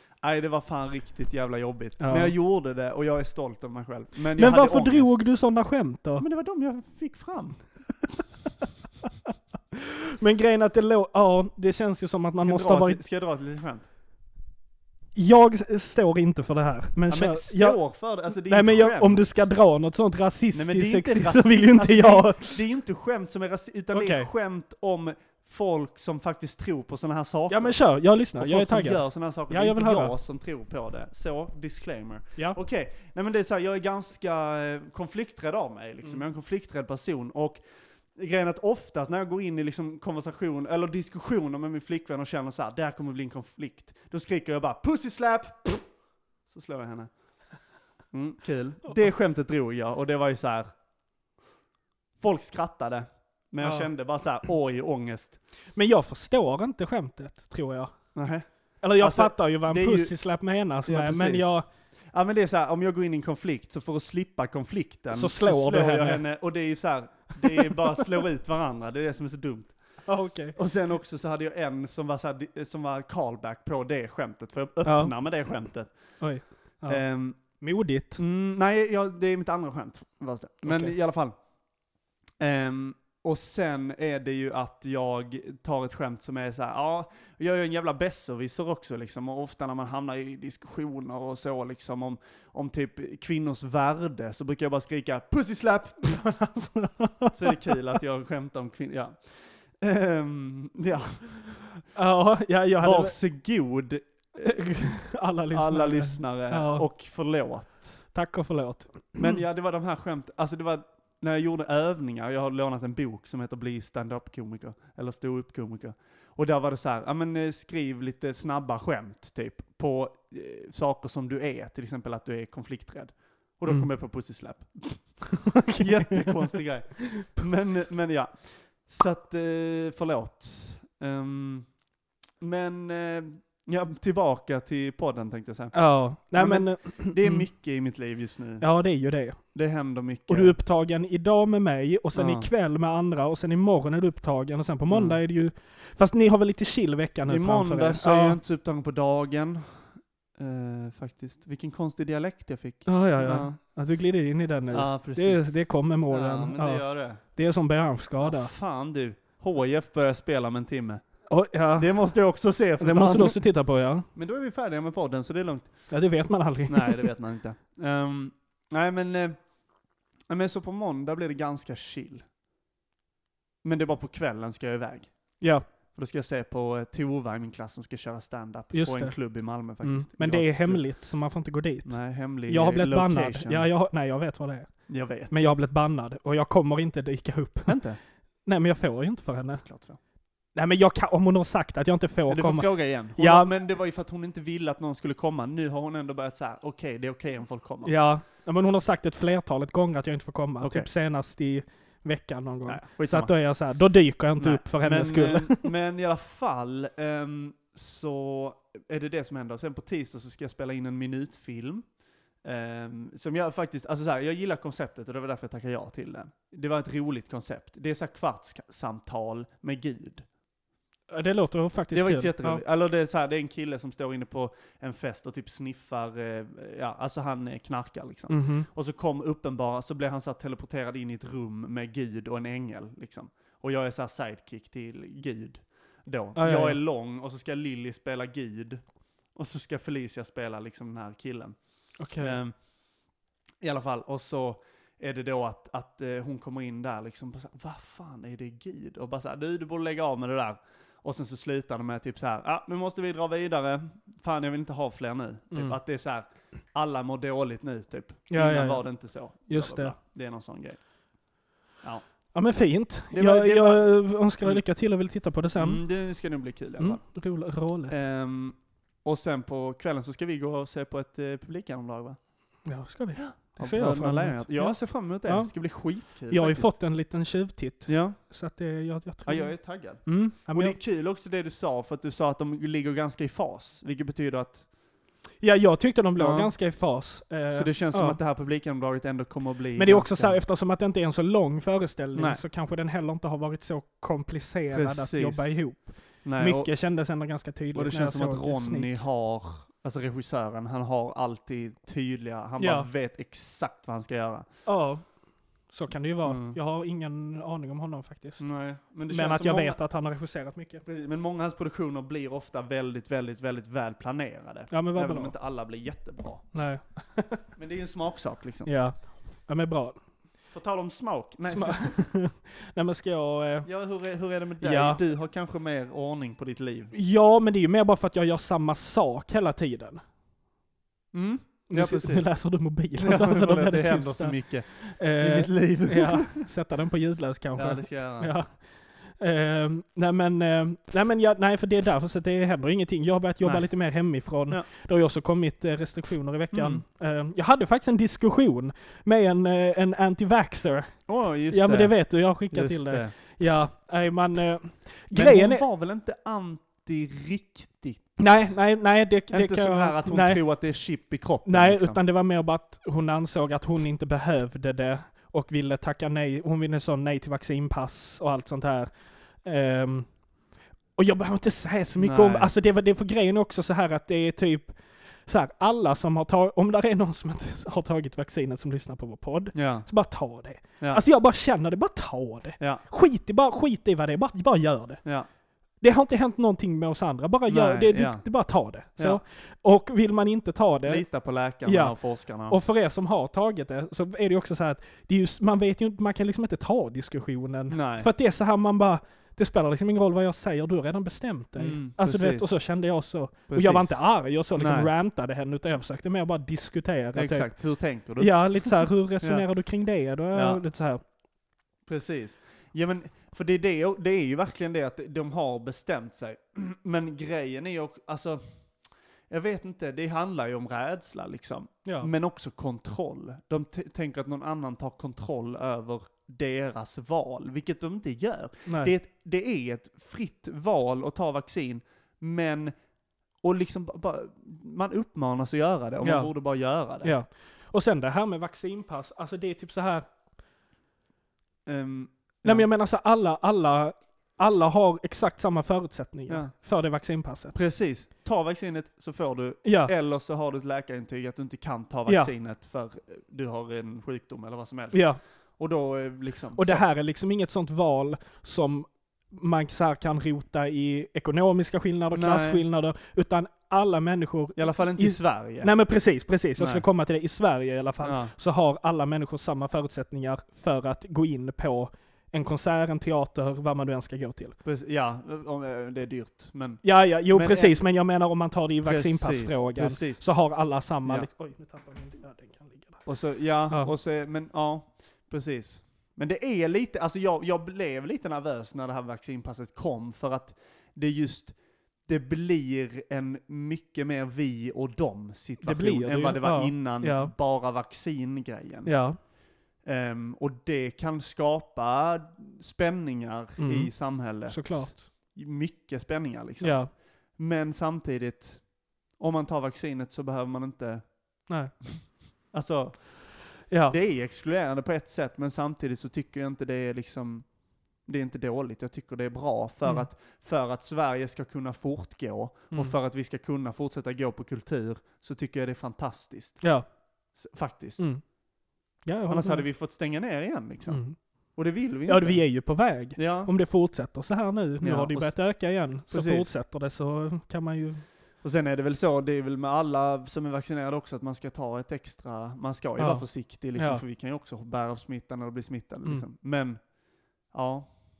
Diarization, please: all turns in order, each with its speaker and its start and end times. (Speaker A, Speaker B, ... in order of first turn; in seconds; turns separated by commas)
Speaker A: 0.2-5.2, Speaker B: 2.0-2.3, Speaker B: 4.3-6.2, Speaker A: 6.2-7.6, Speaker B: 9.7-13.0, Speaker A: 12.4-13.9, Speaker B: 15.1-22.6, Speaker A: 17.1-19.4, Speaker A: 20.5-27.8, Speaker B: 23.9-24.3, Speaker B: 27.5-30.1, Speaker A: 28.4-37.6, Speaker A: 38.1-45.8, Speaker A: 46.5-47.1, Speaker A: 48.1-50.7, Speaker A: 52.2-55.4, Speaker B: 53.6-53.9, Speaker B: 55.8-57.9, Speaker A: 58.1-58.5, Speaker B: 58.8-61.6, Speaker A: 59.0-60.1, Speaker A: 60.9-69.8, Speaker B: 65.1-66.2, Speaker B: 67.4-67.9, Speaker B: 70.0-70.6, Speaker A: 70.5-76.2, Speaker B: 74.8-75.1, Speaker B: 76.2-78.2, Speaker A: 76.9-77.4, Speaker A: 78.2-81.3, Speaker B: 80.6-81.0, Speaker A: 82.4-96.2, Speaker B: 96.0-97.8, Speaker A: 97.3-101.7, Speaker B: 101.9-103.2, Speaker A: 102.8-104.6, Speaker B: 104.3-106.8, Speaker A: 105.5-108.0, Speaker B: 108.1-109.4, Speaker A: 109.2-131.7, Speaker B: 125.4-127.3, Speaker A: 132.4-135.7, Speaker B: 135.7-137.4, Speaker A: 136.3-138.6, Speaker B: 138.6-139.4, Speaker A: 139.5-140.6, Speaker B: 140.3-148.4, Speaker A: 142.1-142.5, Speaker A: 144.9-145.2, Speaker A: 147.3-153.6, Speaker B: 152.8-158.5, Speaker A: 154.7-157.2, Speaker A: 158.2-161.1, Speaker B: 161.3-162.0, Speaker A: 161.8-163.4, Speaker B: 162.8-164.1, Speaker A: 164.1-165.9, Speaker B: 165.9-167.1, Speaker A: 166.7-169.5, Speaker A: 170.3-172.2, Speaker A: 173.6-175.4, Speaker B: 175.4-175.6, Speaker A: 175.9-180.8, Speaker B: 178.7-179.2, Speaker B: 179.8-187.8, Speaker A: 181.8-183.7, Speaker A: 184.9-185.5, Speaker A: 187.7-188.0, Speaker B: 188.4-189.6, Speaker A: 189.6-190.0, Speaker B: 190.5-193.5, Speaker A: 192.3-197.9, Speaker B: 197.8-205.7, Speaker A: 200.6-200.9, Speaker A: 202.7-203.3, Speaker A: 204.4-211.8, Speaker A: 212.4-220.2, Speaker B: 221.1-222.6, Speaker A: 221.9-238.8, Speaker B: 228.3-228.7, Speaker B: 236.3-236.8, Speaker A: 239.3-241.6, Speaker B: 242.0-242.4, Speaker A: 242.2-242.5, Speaker A: 243.6-260.8, Speaker B: 258.3-258.8, Speaker B: 259.5-259.9, Speaker B: 262.3-265.8, Speaker A: 263.1-263.9, Speaker A: 265.6-267.0, Speaker B: 266.8-267.9, Speaker A: 267.9-272.2, Speaker B: 272.6-275.5, Speaker A: 273.1-276.7, Speaker B: 276.3-280.8, Speaker A: 277.9-278.2, Speaker A: 279.2-284.7, Speaker B: 285.4-288.2, Speaker A: 286.2-286.5, Speaker A: 287.5-290.4, Speaker B: 289.8-299.0, Speaker A: 292.1-292.4, Speaker A: 294.7-295.6, Speaker A: 296.2-296.7, Speaker A: 297.7-304.4, Speaker B: 302.6-302.9, Speaker B: 304.6-305.1, Speaker B: 305.7-308.4, Speaker A: 306.2-306.6, Speaker A: 308.4-309.8, Speaker B: 309.1-310.8, Speaker A: 310.9-316.4, Speaker B: 314.7-315.3, Speaker B: 316.5-317.4, Speaker A: 317.6-318.7, Speaker B: 318.6-320.0, Speaker A: 320.5-322.1, Speaker B: 321.5-323.7, Speaker A: 323.6-326.9, Speaker B: 324.6-325.0, Speaker B: 326.9-330.0, Speaker A: 331.1-332.3, Speaker B: 331.7-355.6, Speaker A: 333.0-336.4, Speaker A: 337.5-338.3, Speaker A: 343.4-343.7, Speaker A: 346.5-346.8, Speaker A: 351.1-352.0, Speaker A: 352.5-353.1, Speaker A: 355.1-358.5, Speaker B: 358.2-360.4, Speaker A: 359.3-362.0, Speaker B: 361.4-368.9, Speaker B: 369.4-370.1, Speaker B: 371.0-374.7, Speaker A: 372.0-372.5, Speaker B: 375.2-385.0, Speaker A: 379.5-379.9, Speaker B: 385.8-391.0, Speaker A: 387.5-388.2, Speaker A: 390.9-392.6, Speaker B: 391.6-391.9, Speaker B: 392.5-407.5, Speaker A: 397.7-398.1, Speaker A: 401.6-402.6, Speaker A: 403.5-404.0, Speaker A: 404.5-404.9, Speaker A: 407.1-409.4, Speaker B: 408.2-411.0, Speaker A: 410.3-410.6, Speaker A: 411.9-418.7, Speaker A: 419.3-432.7, Speaker B: 421.8-422.1, Speaker B: 428.6-428.9, Speaker A: 433.4-437.1, Speaker B: 436.0-436.3, Speaker B: 437.0-440.1, Speaker A: 441.6-442.7, Speaker B: 442.4-447.6, Speaker A: 447.5-456.8, Speaker B: 449.6-449.9, Speaker B: 452.1-452.3, Speaker B: 454.9-455.2, Speaker B: 456.5-474.6, Speaker A: 462.1-462.6, Speaker A: 464.6-465.7, Speaker A: 466.6-466.8, Speaker A: 468.0-468.3, Speaker A: 474.6-477.8, Speaker B: 476.8-483.1, Speaker A: 478.8-480.2, Speaker A: 483.1-498.9, Speaker B: 495.6-497.3, Speaker B: 498.9-499.2, Speaker A: 499.8-517.5, Speaker B: 503.6-505.0, Speaker B: 506.6-506.9, Speaker B: 511.5-511.7, Speaker B: 513.7-514.0, Speaker A: 518.0-526.6, Speaker B: 526.6-526.9, Speaker A: 527.3-528.0, Speaker B: 528.0-528.2, Speaker B: 529.0-529.6, Speaker A: 529.3-531.0, Speaker B: 530.9-531.2, Speaker A: 531.5-532.4, Speaker B: 532.1-538.0, Speaker A: 533.1-533.5, Speaker A: 534.8-535.4, Speaker A: 536.1-536.5, Speaker A: 538.4-546.8, Speaker B: 543.0-544.0, Speaker A: 547.5-548.0